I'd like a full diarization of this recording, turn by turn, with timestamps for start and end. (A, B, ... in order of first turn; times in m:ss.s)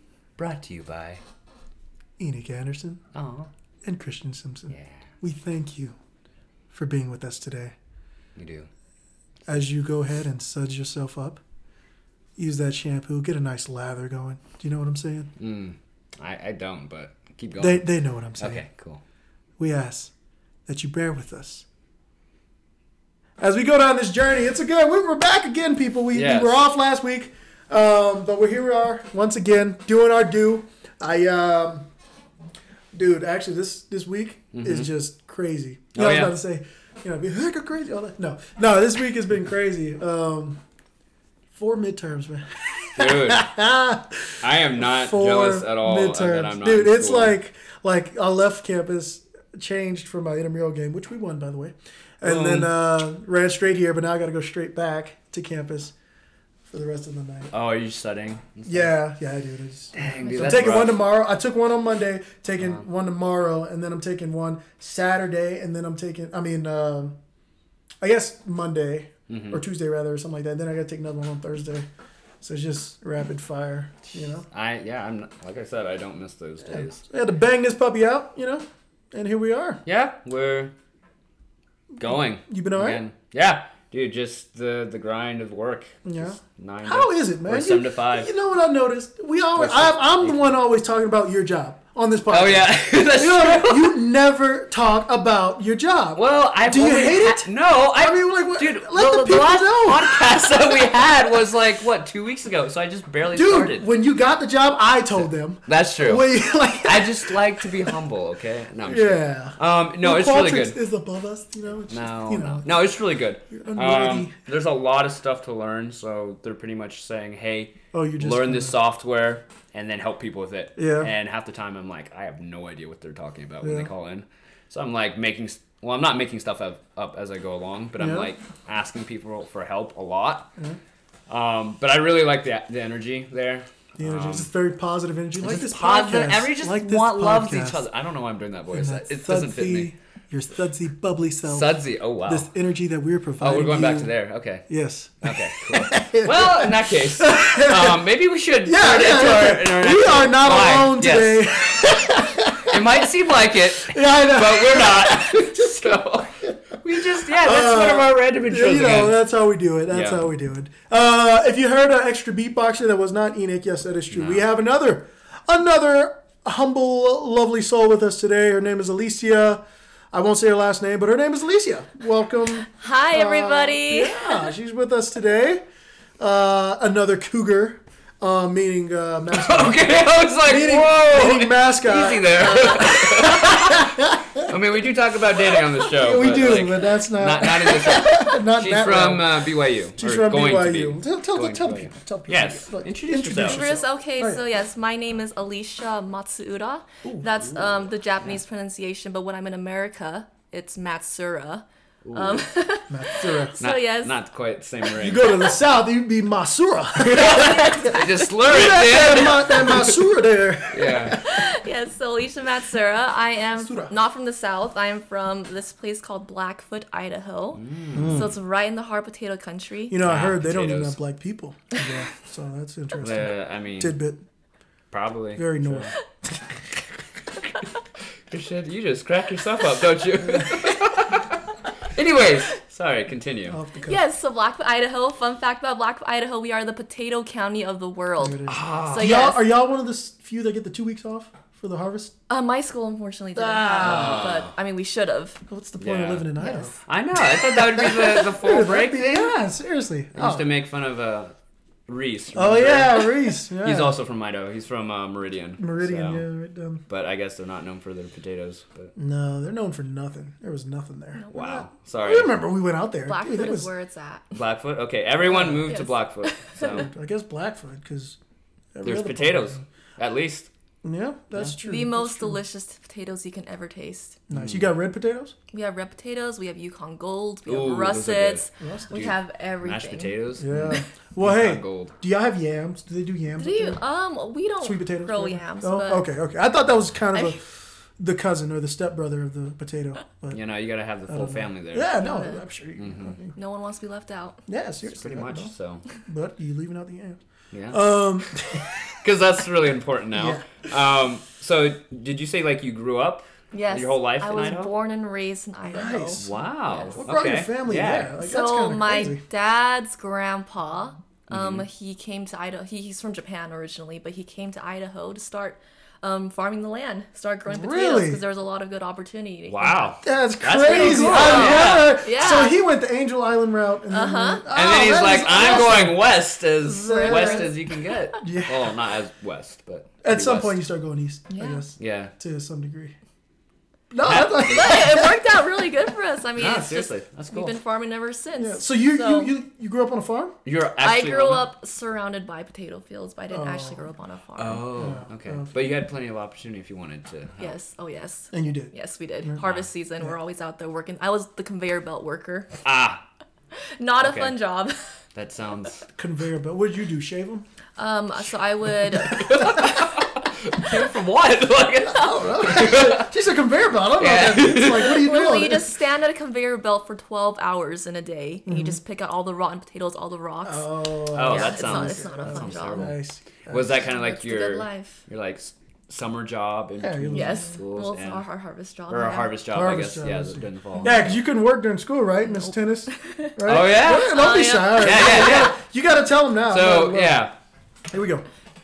0:00.4-0:01.2 A
0:02.2-0:03.0 B
0:03.1-0:03.5 A
0:03.8-0:06.0 B
0:04.7-0:05.1 A
0:06.7-0:07.8 B
0:08.4-0:08.7 A
0:09.5-0:11.4 B
0:12.4-0:15.3 B
0:15.4-0:17.9 A
0:17.6-0:18.6 B
0:18.4-0:19.0 A
0:19.6-0:20.1 B
0:20.7-0:21.7 B
0:23.4-0:31.9 B
0:26.1-0:26.6 A
0:32.9-0:40.6 B
0:34.5-0:34.9 A
0:36.0-0:36.3 A
0:41.5-0:55.9 B
0:43.0-0:43.5 A
0:44.4-0:47.4 A
0:52.2-0:52.7 A
0:56.7-0:57.5 B
0:57.5-0:59.0 A
0:58.6-1:07.2 B
1:00.0-1:01.0 A
1:00.2-1:00.8 C
1:08.0-1:11.9 B
1:09.3-1:09.6 A
1:12.4-1:14.5 B
1:14.5-1:17.0 A
1:16.7-1:19.8 B
1:19.9-1:20.7 A
1:22.0-1:28.3 A
1:22.0-1:23.0 B
1:26.0-1:41.1 B
1:29.6-1:30.4 A
1:32.3-1:34.0 A
1:36.2-1:43.9 A
1:43.3-1:48.0 B
1:45.7-1:50.8 A
1:48.8-1:52.7 B
1:51.9-2:10.5 A
1:53.5-1:54.3 B
1:57.9-1:58.8 B
2:00.8-2:01.1 B
2:03.6-2:03.9 B
2:08.0-2:08.3 B
2:11.3-2:14.5 A
2:14.0-2:17.8 B
2:15.4-2:19.9 A
2:18.7-2:24.1 B
2:21.4-2:22.5 A
2:23.4-2:24.7 A
2:24.7-2:28.0 B
2:25.2-2:39.2 A
2:28.6-2:33.1 B
2:33.8-2:55.6 B
2:39.9-2:40.2 A
2:44.1-2:44.4 A
2:52.7-2:54.5 C
2:56.2-3:04.5 B
2:59.3-3:13.7 A
3:02.4-3:03.0 C
3:05.9-3:14.4 B
3:07.9-3:08.3 C
3:13.4-3:24.2 C
3:17.4-3:17.6 A
3:22.0-3:22.5 A
3:22.9-3:23.6 B
3:23.6-3:25.6 A
3:25.0-3:31.4 B
3:27.1-3:30.0 A
3:27.2-3:28.2 C
3:30.7-3:31.2 A
3:31.1-3:40.0 C
3:33.6-3:33.9 B
3:37.6-3:38.2 A
3:37.9-3:38.4 B
3:39.9-3:44.2 B
3:40.0-3:41.0 A
3:43.0-3:44.0 A
3:44.9-3:45.9 A
3:45.4-3:46.5 B
3:48.3-3:53.6 A
3:50.2-3:50.5 B
3:53.5-3:54.0 B
3:53.9-3:59.5 C
3:58.2-4:02.1 B
3:58.5-3:59.2 A
4:02.3-4:05.4 C
4:03.4-4:04.4 B
4:03.8-4:04.5 A
4:05.5-4:06.8 B
4:05.8-4:06.3 A
4:06.4-4:06.8 C
4:06.9-4:09.1 A
4:07.6-4:10.4 B
4:07.8-4:08.2 C
4:10.2-4:11.4 A
4:11.9-4:16.2 A
4:12.3-4:14.0 B
4:15.6-4:16.8 B
4:16.9-4:18.9 A
4:19.0-4:21.2 B
4:21.2-4:21.7 C
4:21.3-4:22.3 A
4:22.0-4:23.7 B
4:23.1-4:24.3 C
4:24.4-4:26.9 A
4:25.2-4:25.8 B
4:25.7-4:26.8 C
4:26.6-4:28.2 B
4:28.7-4:29.6 B
4:28.8-4:30.5 A
4:30.8-4:32.4 B
4:31.6-4:34.2 C
4:34.3-4:35.3 B
4:34.3-4:34.7 A
4:35.5-4:40.8 C
4:37.5-4:42.0 A
4:38.6-4:39.1 B
4:40.4-4:43.8 B
4:43.4-4:46.1 C
4:44.6-4:50.4 B
4:50.3-4:51.9 A
4:51.1-4:53.4 B
4:52.0-4:52.5 C
4:52.8-4:53.2 A
4:53.3-4:54.4 C
4:54.5-4:55.5 B
4:54.8-4:55.8 A
4:56.0-4:57.2 B
4:57.5-4:58.0 A
4:57.7-4:59.0 B
4:58.8-5:04.7 A
5:00.1-5:00.7 B
5:03.5-5:07.0 C
5:05.6-5:09.2 B
5:06.2-5:08.1 A
5:08.2-5:19.8 C
5:11.3-5:11.7 A
5:17.5-5:18.2 B
5:19.5-5:22.0 A
5:20.0-5:26.0 B
5:20.7-5:22.6 C
5:23.9-5:24.4 C
5:24.5-5:30.6 A
5:26.6-5:27.5 B
5:26.8-5:28.0 C
5:28.2-5:28.7 B
5:30.0-5:33.0 B
5:31.3-5:31.6 C
5:31.8-5:32.1 A
5:33.9-5:35.2 B
5:34.0-5:34.8 A
5:34.4-5:39.3 C
5:36.4-5:37.5 A
5:38.4-5:40.4 B
5:40.4-5:41.5 A
5:40.8-5:44.7 C
5:43.3-5:43.8 B
5:44.4-5:47.5 A
5:44.8-5:45.6 B
5:47.4-5:52.6 C
5:48.3-5:48.7 B
5:49.4-5:49.7 A
5:52.6-5:53.0 A
5:53.6-5:55.0 C
5:54.0-5:54.3 A
5:55.2-5:55.9 A
5:56.0-5:57.5 B
5:57.8-5:59.9 C
5:59.1-6:03.1 A
5:59.1-5:59.4 B
6:01.9-6:02.8 C
6:01.9-6:05.8 B
6:04.0-6:05.0 A
6:04.8-6:12.9 C
6:08.5-6:08.8 B
6:10.4-6:13.8 B
6:11.1-6:18.2 A
6:13.9-6:15.0 C
6:16.8-6:17.5 B
6:17.1-6:19.3 C
6:18.9-6:21.2 A
6:19.5-6:27.2 B
6:22.3-6:25.5 C
6:23.4-6:24.2 A
6:24.7-6:25.6 A
6:26.5-6:27.4 A
6:27.9-6:28.3 B